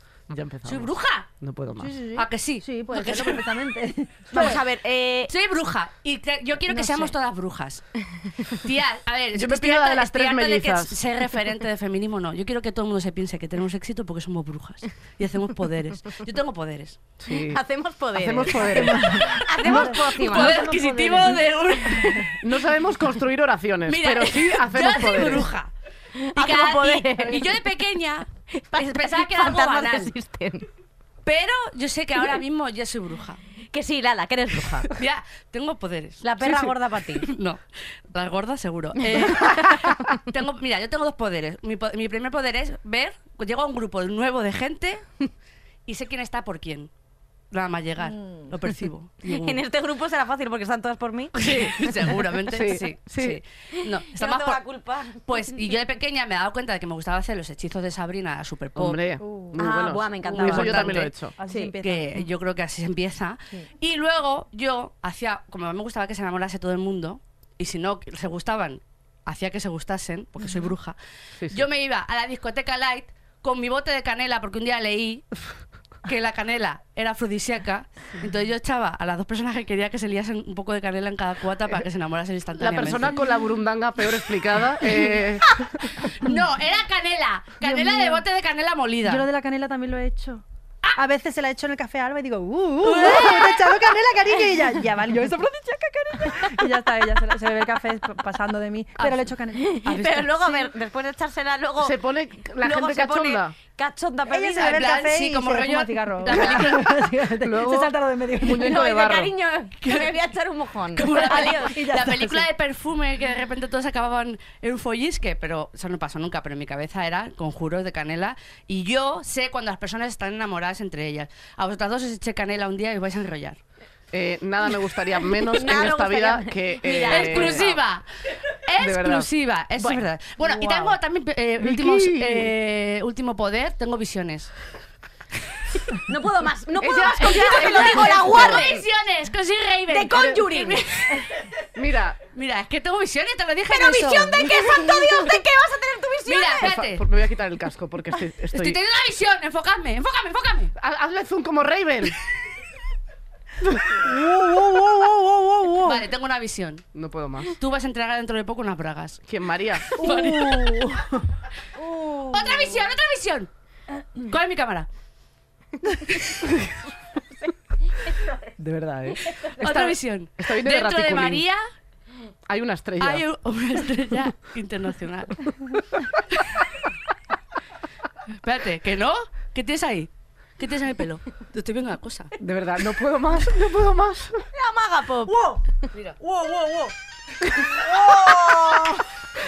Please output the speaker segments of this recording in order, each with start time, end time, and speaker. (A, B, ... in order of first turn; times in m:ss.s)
0:00.3-0:02.0 A
0:00.6-0:01.3 B
0:01.8-0:04.6 C
0:02.2-0:03.4 B
0:04.3-0:05.3 D
0:05.3-0:07.8 B
0:06.8-0:07.1 D
0:08.4-0:17.0 B
0:09.4-0:11.0 A
0:17.2-0:17.6 A
0:17.3-0:20.6 D
0:18.2-0:19.2 A
0:18.6-0:22.3 C
0:19.2-0:22.4 B
0:22.4-0:25.5 A
0:23.9-0:25.7 B
0:26.2-0:27.7 D
0:26.3-0:30.1 B
0:28.5-0:30.7 D
0:31.2-0:33.4 B
0:33.7-0:34.9 D
0:34.8-0:36.2 B
0:36.2-0:37.3 D
0:37.2-0:37.6 B
0:38.1-0:45.0 B
0:39.0-0:40.2 D
0:45.9-0:46.9 B
0:47.5-0:49.6 B
0:49.3-0:51.8 D
0:51.3-0:54.6 B
0:52.5-0:53.4 A
0:53.8-0:55.4 D
0:55.2-0:59.0 B
0:58.8-1:01.3 A
0:59.2-0:59.6 C
0:59.6-1:01.7 D
1:00.2-1:01.2 B
1:01.4-1:02.3 C
1:01.8-1:11.0 B
1:11.4-1:11.6 A
1:11.5-1:15.2 B
1:16.0-1:23.2 B
1:22.6-1:26.1 A
1:26.0-1:29.2 B
1:27.6-1:28.2 C
1:29.0-1:30.4 C
1:31.0-1:40.7 C
1:32.8-1:33.7 B
1:39.6-1:42.0 D
1:41.8-1:43.5 A
1:42.6-1:44.8 D
1:44.3-1:48.8 C
1:44.6-1:47.0 B
1:47.4-1:49.3 A
1:48.5-1:51.8 D
1:49.8-1:50.1 B
1:51.0-2:03.6 B
1:51.4-1:52.5 C
2:04.1-2:07.7 A
2:05.2-2:07.8 D
2:07.0-2:14.5 B
2:08.8-2:11.0 A
2:11.6-2:12.5 A
2:16.1-2:18.8 D
2:16.8-2:21.4 B
2:16.8-2:18.7 A
2:19.9-2:20.8 D
2:21.8-2:22.2 A
2:22.3-2:25.4 B
2:23.7-2:26.7 D
2:26.2-2:27.0 B
2:26.6-2:28.8 A
2:28.5-2:30.7 B
2:30.8-2:32.2 A
2:33.7-2:35.2 A
2:34.0-2:36.0 C
2:35.8-2:36.8 B
2:37.0-2:37.6 A
2:37.5-2:39.2 B
2:39.3-2:40.1 A
2:39.8-2:41.1 B
2:40.0-2:40.9 C
2:41.8-2:42.6 C
2:42.3-2:43.5 B
2:44.2-2:44.9 B
2:48.0-2:48.3 D
2:48.6-2:51.4 A
2:49.6-2:51.6 B
2:52.5-2:53.2 A
2:53.0-2:55.4 B
2:56.3-2:56.6 B
2:58.4-3:02.3 B
3:02.4-3:04.5 A
3:04.5-3:05.6 D
3:05.3-3:05.6 C
3:05.9-3:06.9 B
3:07.6-3:09.0 D